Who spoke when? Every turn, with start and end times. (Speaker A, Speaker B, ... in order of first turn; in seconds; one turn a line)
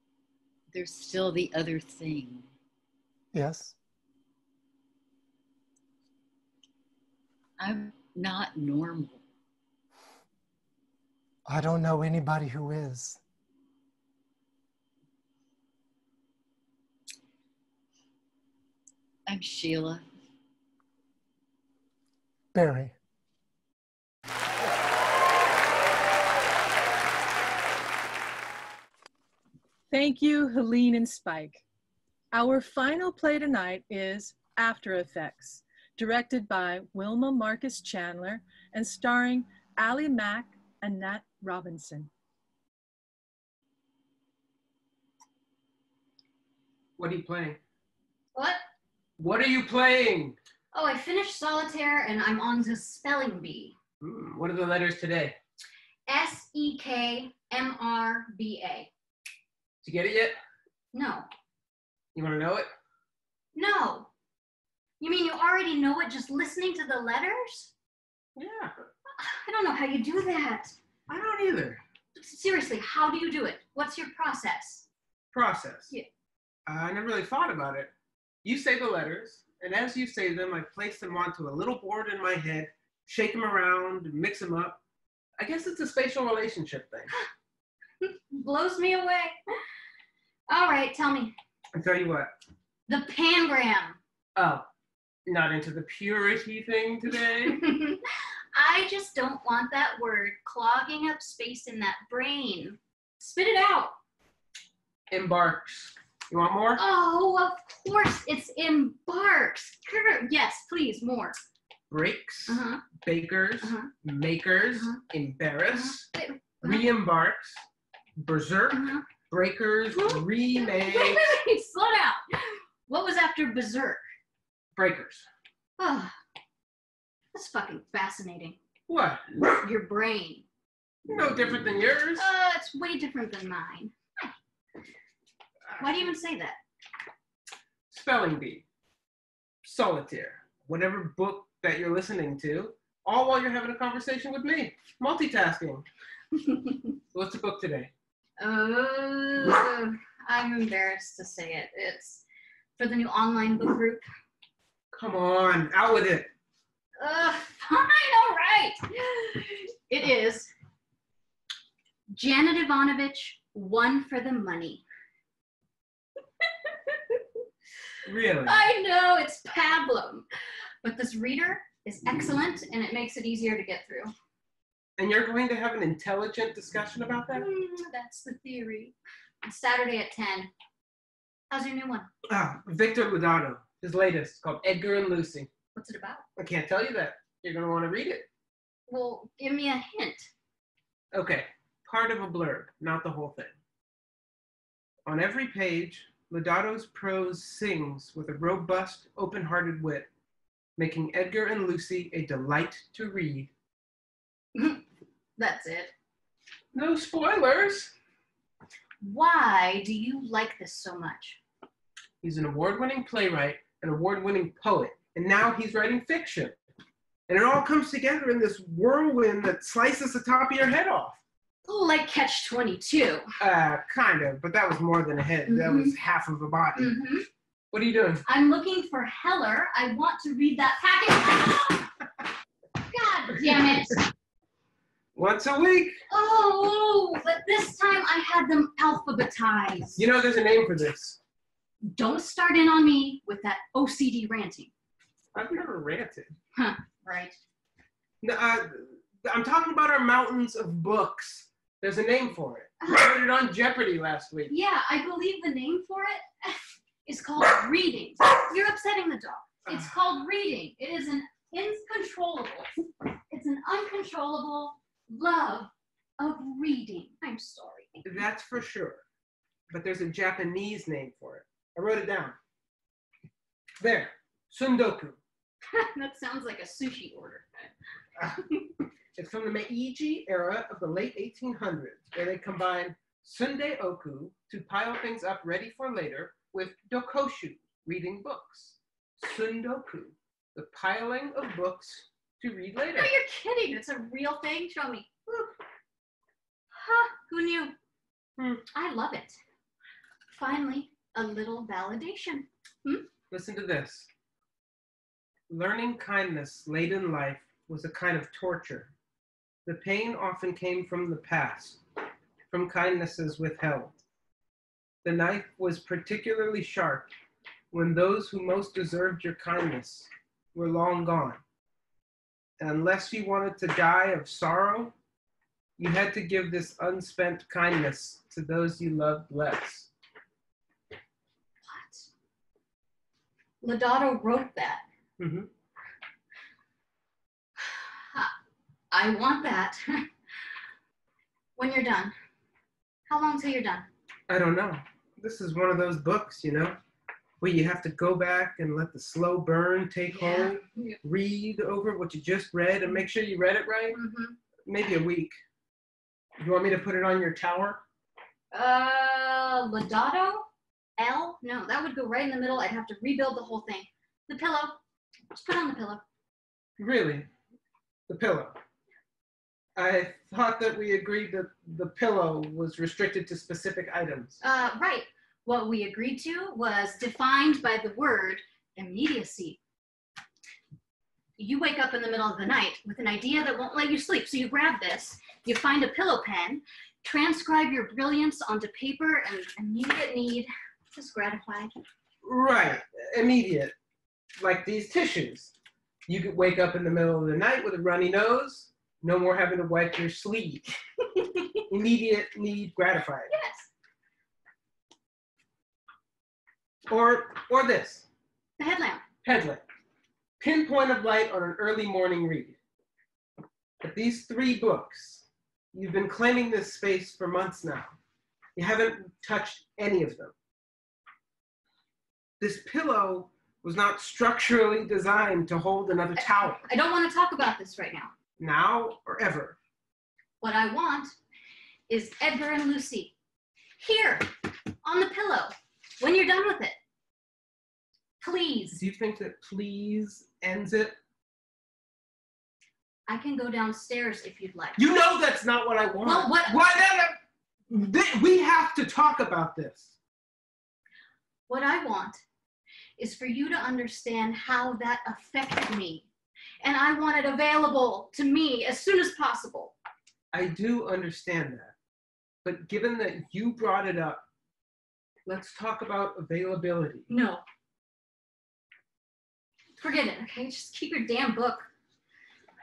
Speaker A: 0.7-2.5
Speaker B: 3.3-3.8
Speaker A: 7.6-9.2
Speaker B: 11.4-13.2
Speaker A: 19.3-20.0
Speaker B: 22.5-22.9
Speaker C: 29.9-31.6
Speaker C: 32.3-42.1
Speaker D: 47.0-47.6
Speaker E: 48.3-48.6
Speaker D: 49.2-50.4
Speaker E: 50.7-53.7
Speaker D: 54.0-55.4
Speaker E: 56.1-58.9
Speaker D: 59.8-60.4
Speaker E: 60.9-61.3
Speaker D: 62.1-62.7
Speaker E: 63.5-64.1
Speaker E: 65.0-67.7
Speaker D: 68.3-68.7
Speaker E: 69.2-70.8
Speaker D: 71.1-71.8
Speaker E: 72.2-74.8
Speaker D: 75.3-75.9
Speaker D: 76.7-77.9
Speaker D: 78.4-84.8
Speaker D: 85.4-87.1
Speaker E: 88.1-89.3
Speaker E: 90.5-91.3
Speaker D: 91.7-92.3
Speaker E: 92.9-94.0
Speaker D: 94.3-94.7
Speaker D: 95.2-97.6
Speaker E: 97.4-98.0
Speaker E: 98.5-104.0
Speaker D: 105.1-106.8
Speaker E: 106.8-111.4
Speaker D: 111.9-116.1
Speaker E: 112.5-112.9
Speaker E: 113.6-113.9
Speaker E: 114.7-115.0
Speaker E: 115.7-116.9
Speaker D: 116.6-117.5
Speaker D: 118.2-121.3
Speaker E: 118.7-119.1
Speaker E: 119.9-124.0
Speaker D: 124.7-125.2
Speaker E: 125.8-126.2
Speaker E: 127.3-128.6
Speaker D: 128.9-129.2
Speaker E: 129.6-130.4
Speaker D: 131.1-132.3
Speaker E: 132.2-134.3
Speaker E: 135.8-136.6
Speaker D: 135.8-136.1
Speaker D: 137.9-138.6
Speaker D: 139.6-145.8
Speaker D: 147.1-147.9
Speaker E: 148.4-152.2
Speaker E: 152.8-154.0
Speaker D: 154.9-156.3
Speaker E: 157.0-160.5
Speaker E: 162.1-164.8
Speaker D: 168.1-168.6
Speaker E: 168.4-170.2
Speaker E: 170.8-174.1
Speaker D: 175.0-177.4
Speaker E: 177.3-180.5
Speaker E: 181.5-182.1
Speaker D: 182.3-185.5
Speaker E: 185.7-186.2
Speaker D: 186.3-188.3
Speaker E: 188.9-190.3
Speaker D: 191.1-193.5
Speaker D: 195.1-200.1
Speaker D: 200.8-203.5
Speaker E: 204.5-204.8
Speaker E: 205.4-205.9
Speaker D: 206.7-207.9
Speaker E: 209.0-211.4
Speaker D: 212.2-216.5
Speaker D: 217.3-221.2
Speaker E: 221.6-223.3
Speaker D: 223.4-226.9
Speaker E: 225.4-226.0
Speaker E: 226.7-227.2
Speaker D: 227.7-228.2
Speaker E: 228.2-231.9
Speaker E: 232.9-234.1
Speaker D: 235.1-236.0
Speaker E: 236.1-240.1
Speaker D: 240.0-241.2
Speaker E: 241.8-244.7
Speaker D: 245.3-246.3
Speaker E: 246.5-247.3
Speaker D: 248.2-254.5
Speaker E: 252.8-253.2
Speaker E: 254.5-262.7
Speaker E: 263.3-268.2
Speaker D: 268.0-269.0
Speaker D: 269.7-272.4
Speaker D: 273.8-275.2
Speaker E: 275.7-277.7
Speaker E: 278.3-278.6
Speaker D: 279.1-293.1
Speaker E: 292.9-295.5
Speaker E: 296.7-297.7
Speaker E: 298.7-299.4
Speaker E: 300.3-303.1
Speaker D: 303.3-304.1
Speaker D: 305.5-308.9
Speaker D: 309.6-311.8
Speaker D: 312.5-314.0
Speaker D: 315.0-317.1
Speaker D: 317.7-321.4
Speaker D: 322.6-324.9
Speaker D: 325.8-329.9
Speaker E: 331.6-332.1
Speaker E: 333.6-334.8
Speaker D: 335.2-335.5
Speaker E: 338.1-338.3
Speaker E: 338.9-340.1
Speaker E: 341.6-342.1
Speaker E: 343.1-343.9
Speaker D: 344.3-346.8
Speaker D: 347.4-354.0
Speaker E: 350.1-351.0
Speaker E: 353.9-354.4
Speaker D: 354.6-355.4
Speaker D: 356.4-357.8
Speaker E: 358.5-364.8
Speaker E: 365.3-366.0
Speaker D: 366.8-367.3
Speaker D: 368.1-368.6
Speaker D: 369.8-374.4
Speaker E: 374.4-379.6
Speaker E: 381.4-391.8
Speaker D: 392.2-393.7
Speaker D: 394.4-395.5
Speaker D: 396.1-400.7
Speaker D: 401.7-403.3
Speaker E: 403.3-403.7
Speaker D: 406.9-408.1
Speaker E: 408.6-409.0
Speaker D: 409.2-409.6
Speaker D: 410.4-412.6
Speaker D: 413.8-417.9
Speaker D: 418.6-420.3
Speaker D: 422.4-426.6
Speaker E: 426.1-428.1
Speaker D: 428.4-429.6
Speaker E: 430.4-431.1
Speaker E: 431.9-433.1
Speaker E: 433.8-434.3
Speaker E: 434.8-436.8
Speaker E: 438.2-438.8
Speaker D: 438.7-440.9
Speaker E: 443.1-444.8
Speaker D: 444.8-447.2
Speaker E: 446.0-446.6
Speaker D: 447.7-449.9
Speaker E: 451.5-452.2
Speaker E: 453.0-456.1
Speaker E: 456.6-459.7
Speaker D: 460.3-461.7
Speaker D: 462.4-464.2
Speaker D: 465.2-467.1
Speaker E: 467.1-467.4
Speaker E: 469.8-471.7